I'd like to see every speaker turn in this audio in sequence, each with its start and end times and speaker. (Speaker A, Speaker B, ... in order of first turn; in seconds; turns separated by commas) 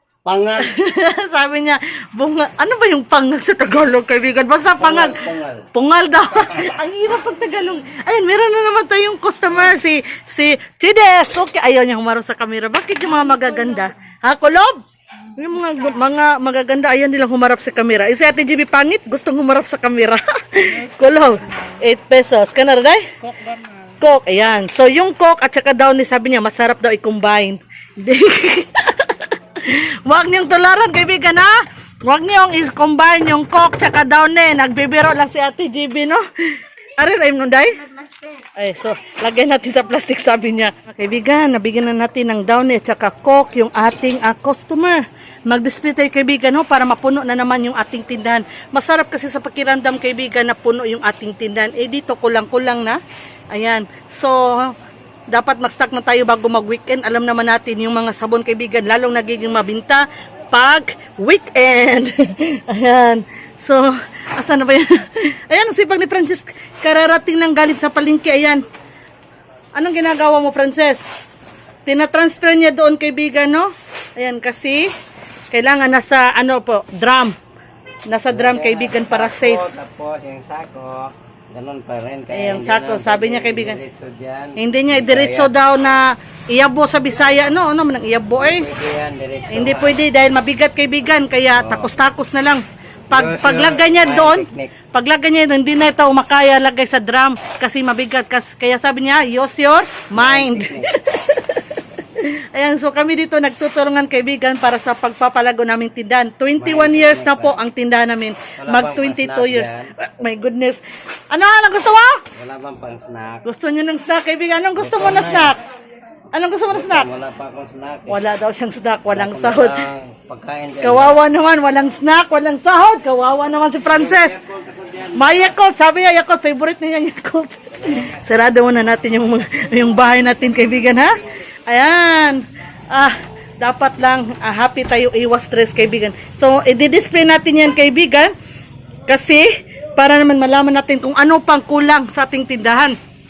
Speaker A: 0.2-0.7, Speaker B: 0.6-53.0, Speaker A: 4.8-5.7, Speaker B: 53.5-54.8, Speaker B: 55.3-68.6, Speaker B: 69.7-71.0, Speaker B: 71.8-74.9, Speaker B: 75.5-77.3, Speaker B: 78.1-79.6, Speaker A: 78.3-85.5, Speaker B: 82.3-83.8, Speaker B: 84.6-88.7, Speaker A: 88.4-90.0, Speaker B: 89.5-112.2, Speaker A: 91.5-91.9, Speaker A: 93.1-94.8, Speaker A: 100.1-100.9, Speaker A: 106.6-107.6, Speaker A: 108.6-109.9, Speaker A: 112.3-113.4, Speaker B: 113.4-115.6, Speaker A: 114.8-115.5, Speaker B: 116.3-117.1, Speaker A: 116.7-118.2, Speaker B: 118.1-119.8, Speaker A: 119.1-121.2, Speaker B: 120.8-124.4, Speaker A: 123.9-125.5, Speaker B: 125.1-138.3, Speaker A: 127.8-128.2, Speaker B: 139.1-142.9